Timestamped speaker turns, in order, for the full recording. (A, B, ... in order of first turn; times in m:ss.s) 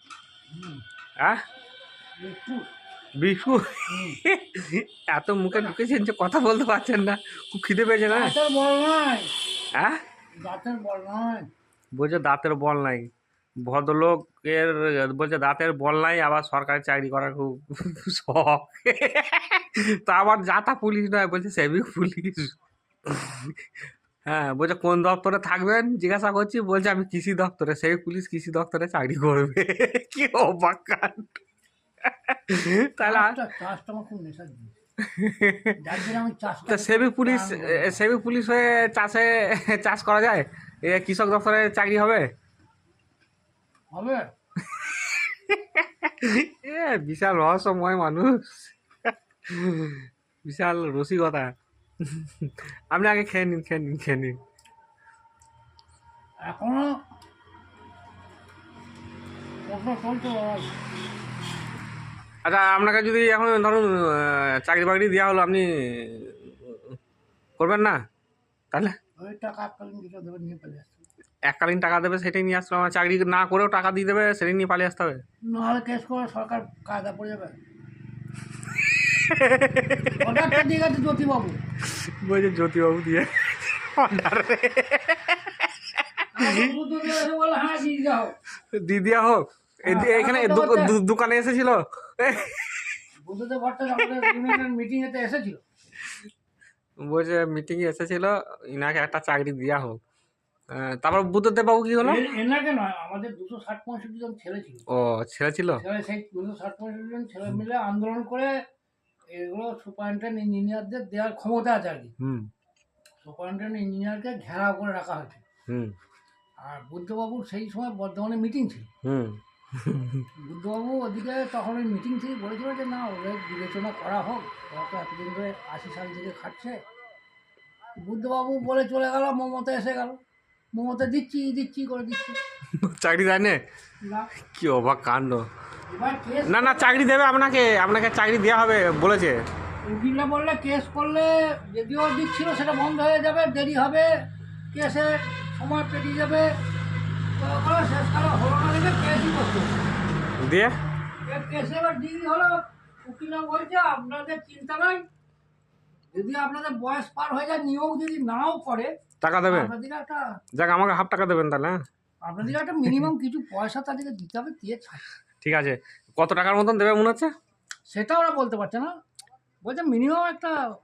0:00.5-0:00.8 A
0:02.2-0:02.7 A
0:03.2-0:08.4 B
0:03.9-0:04.2 A
0:08.1-0:09.3 A
0:09.7-0:10.0 B
0:10.4-0:11.5 A
0:11.9-0:13.1 B
0:13.6-0:23.6 B
0:24.3-0:31.4 B
0:32.0-0:33.4 B
0:33.0-0:34.7 A
0:35.0-0:35.9 B
0:35.8-0:38.0 A
0:36.7-0:42.3 B
0:43.9-0:44.3 A
0:44.7-0:51.5 B
0:52.0-0:54.4 B
0:56.5-0:56.9 A
0:59.7-1:00.8 A
1:02.4-1:07.0 B
1:07.6-1:08.0 B
1:09.2-1:11.1 A
1:11.5-1:15.2 B
1:15.5-1:17.6 A
1:18.8-1:20.6 B
1:20.2-1:21.6 A
1:21.9-1:25.7 B
1:26.3-1:28.4 A
1:26.4-1:26.7 B
1:28.7-1:32.9 B
1:29.9-1:31.0 A
1:33.2-1:35.6 A
1:37.0-1:40.0 B
1:40.7-1:42.2 B
1:42.0-1:44.8 A
1:44.9-1:45.8 B
1:45.8-1:48.5 A
1:49.3-1:52.1 A
1:52.2-1:52.5 B
1:53.2-1:55.4 A
1:55.7-1:56.0 B
1:56.6-1:58.9 A
1:59.0-2:00.3 B
2:00.4-2:06.8 A
2:08.0-2:10.2 A
2:10.7-2:12.4 A
2:12.8-2:13.6 B
2:14.0-2:14.3 A
2:14.5-2:15.4 B
2:15.9-2:17.0 A
2:16.5-2:19.4 B
2:19.8-2:24.1 A
2:24.7-2:26.5 A
2:27.4-2:29.8 A
2:30.4-2:30.8 B
2:31.3-2:35.0 A
2:36.1-2:38.9 A
2:39.2-2:39.7 B
2:39.4-2:40.2 A
2:40.6-2:41.8 B
2:42.2-2:45.1 A
2:45.4-2:47.3 B
2:47.9-2:48.9 A
2:49.6-2:50.6 A